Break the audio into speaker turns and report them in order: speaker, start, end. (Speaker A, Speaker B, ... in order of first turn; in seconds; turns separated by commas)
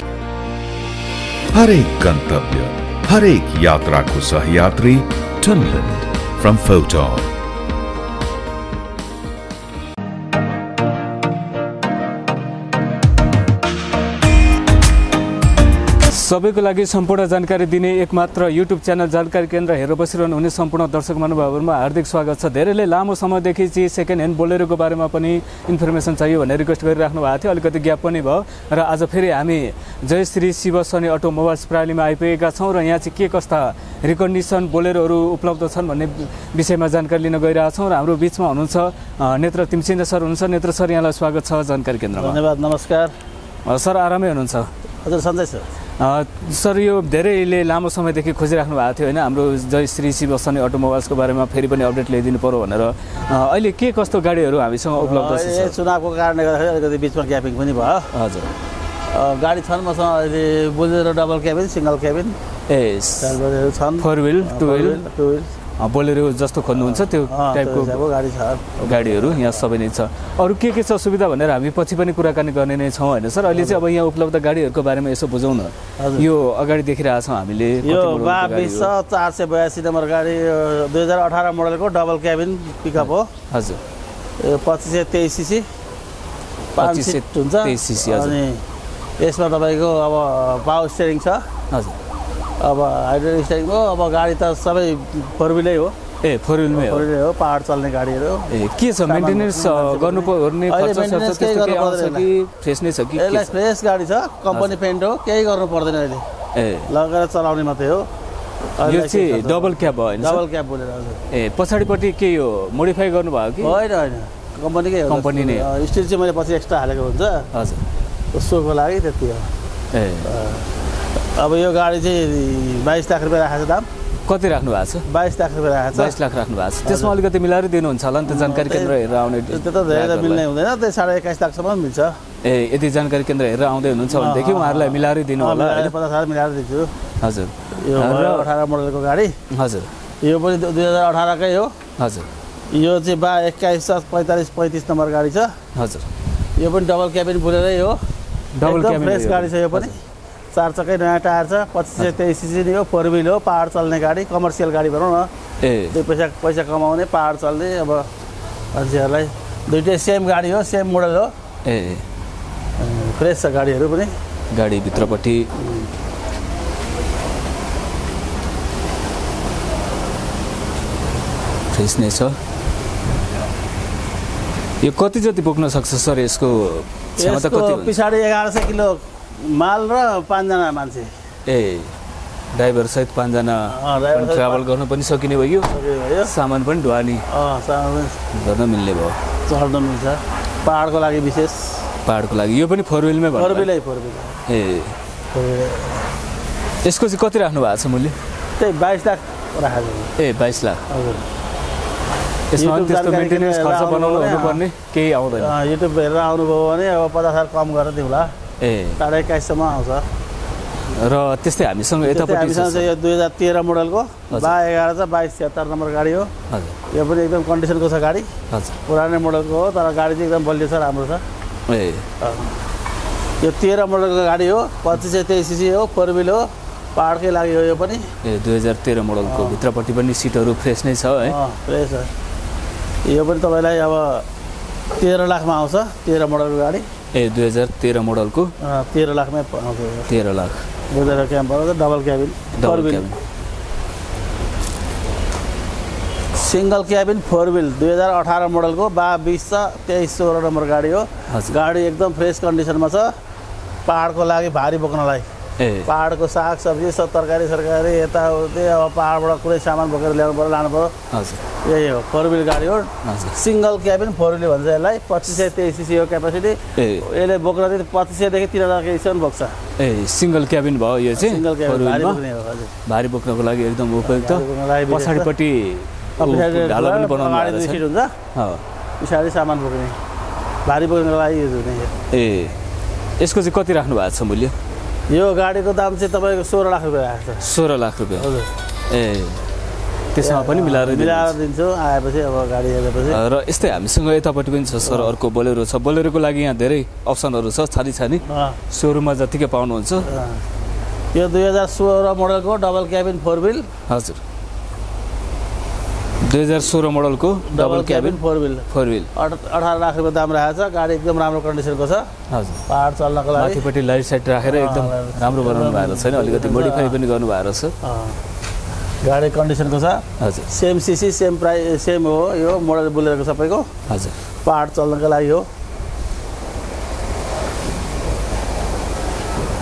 Speaker A: 1.5-7.3, Speaker B: 16.1-42.4, Speaker C: 42.1-43.1, Speaker B: 43.6-44.7, Speaker C: 45.0-45.7, Speaker B: 46.0-55.8, Speaker C: 54.9-58.1, Speaker B: 58.1-58.5, Speaker C: 59.1-62.3, Speaker B: 62.7-63.4, Speaker C: 63.2-65.5, Speaker B: 64.0-65.0, Speaker B: 65.8-68.0, Speaker C: 66.8-69.6, Speaker B: 68.8-78.9, Speaker C: 73.5-73.8, Speaker C: 76.0-76.3, Speaker C: 77.8-83.3, Speaker B: 83.0-83.8, Speaker C: 84.4-85.7, Speaker B: 86.8-88.3, Speaker C: 86.8-88.6, Speaker C: 89.2-91.4, Speaker B: 91.7-92.0, Speaker C: 92.6-95.9, Speaker B: 96.2-97.1, Speaker C: 96.7-102.3, Speaker B: 98.5-103.5, Speaker C: 103.1-106.2, Speaker B: 106.5-106.9, Speaker C: 106.9-108.0, Speaker C: 108.8-111.2, Speaker B: 108.8-110.4, Speaker B: 111.3-113.8, Speaker C: 113.6-117.5, Speaker B: 115.1-115.7, Speaker B: 117.5-117.8, Speaker C: 118.3-119.5, Speaker B: 119.9-120.3, Speaker C: 120.2-123.8, Speaker B: 124.3-125.0, Speaker C: 125.1-126.2, Speaker B: 125.9-130.4, Speaker C: 126.8-127.2, Speaker C: 128.2-132.2, Speaker B: 132.4-135.9, Speaker C: 134.1-136.9, Speaker B: 137.2-138.5, Speaker C: 137.8-139.3, Speaker B: 139.5-139.9, Speaker C: 140.2-141.7, Speaker B: 142.0-142.3, Speaker C: 142.7-145.5, Speaker B: 145.7-146.1, Speaker C: 146.6-148.0, Speaker B: 148.6-149.9, Speaker C: 148.6-150.0, Speaker C: 150.5-155.3, Speaker B: 155.6-155.9, Speaker C: 155.9-158.1, Speaker C: 158.7-161.3, Speaker B: 161.6-162.0, Speaker C: 162.8-164.1, Speaker B: 164.5-165.5, Speaker C: 165.6-165.9, Speaker B: 171.7-172.4, Speaker B: 174.8-177.9, Speaker C: 177.2-181.1, Speaker B: 181.5-181.9, Speaker B: 182.5-185.7, Speaker C: 183.7-184.6, Speaker C: 185.7-186.3, Speaker B: 186.2-187.2, Speaker C: 187.3-188.2, Speaker B: 188.3-189.2, Speaker C: 189.4-191.8, Speaker B: 192.0-193.7, Speaker C: 193.3-194.4, Speaker B: 194.5-194.9, Speaker C: 195.3-196.0, Speaker B: 196.8-198.2, Speaker C: 198.6-200.1, Speaker B: 200.2-200.8, Speaker C: 200.9-201.2, Speaker B: 202.5-205.5, Speaker C: 202.6-204.6, Speaker C: 205.3-208.3, Speaker B: 208.6-209.0, Speaker C: 209.0-210.1, Speaker B: 210.9-212.9, Speaker C: 212.0-216.3, Speaker B: 216.5-216.8, Speaker C: 216.9-218.3, Speaker C: 218.8-221.2, Speaker B: 221.7-222.1, Speaker C: 222.2-222.5, Speaker C: 223.4-228.1, Speaker B: 228.2-231.3, Speaker C: 229.2-229.6, Speaker C: 231.2-232.1, Speaker C: 233.0-234.2, Speaker C: 235.0-236.8, Speaker B: 237.1-238.5, Speaker C: 238.6-240.1, Speaker B: 240.1-240.6, Speaker C: 240.9-243.1, Speaker B: 242.6-243.2, Speaker C: 246.3-253.1, Speaker B: 251.3-251.5, Speaker C: 253.8-255.3, Speaker B: 255.6-255.9, Speaker C: 255.8-260.9, Speaker B: 261.1-261.4, Speaker C: 261.6-269.6, Speaker B: 263.0-263.3, Speaker B: 266.8-267.0, Speaker B: 269.8-272.2, Speaker C: 271.1-272.7, Speaker B: 272.9-277.8, Speaker C: 274.0-275.3, Speaker C: 276.2-278.1, Speaker B: 278.3-278.6, Speaker C: 279.0-280.0, Speaker C: 280.6-281.9, Speaker B: 282.1-282.6, Speaker B: 283.2-284.5, Speaker C: 285.1-287.4, Speaker B: 287.4-288.2, Speaker C: 288.1-288.5, Speaker B: 288.9-289.4, Speaker B: 290.1-291.3, Speaker C: 290.2-293.2, Speaker B: 293.1-300.1, Speaker C: 294.8-295.1, Speaker C: 298.2-298.6, Speaker C: 300.1-300.4, Speaker C: 301.1-303.7, Speaker B: 303.9-304.2, Speaker B: 306.2-309.1, Speaker C: 307.5-312.1, Speaker B: 312.3-312.6, Speaker C: 312.7-313.6, Speaker B: 313.3-317.7, Speaker C: 314.4-317.0, Speaker C: 317.8-318.2, Speaker C: 319.0-323.7, Speaker B: 320.2-320.5, Speaker B: 323.9-324.1, Speaker C: 324.4-325.4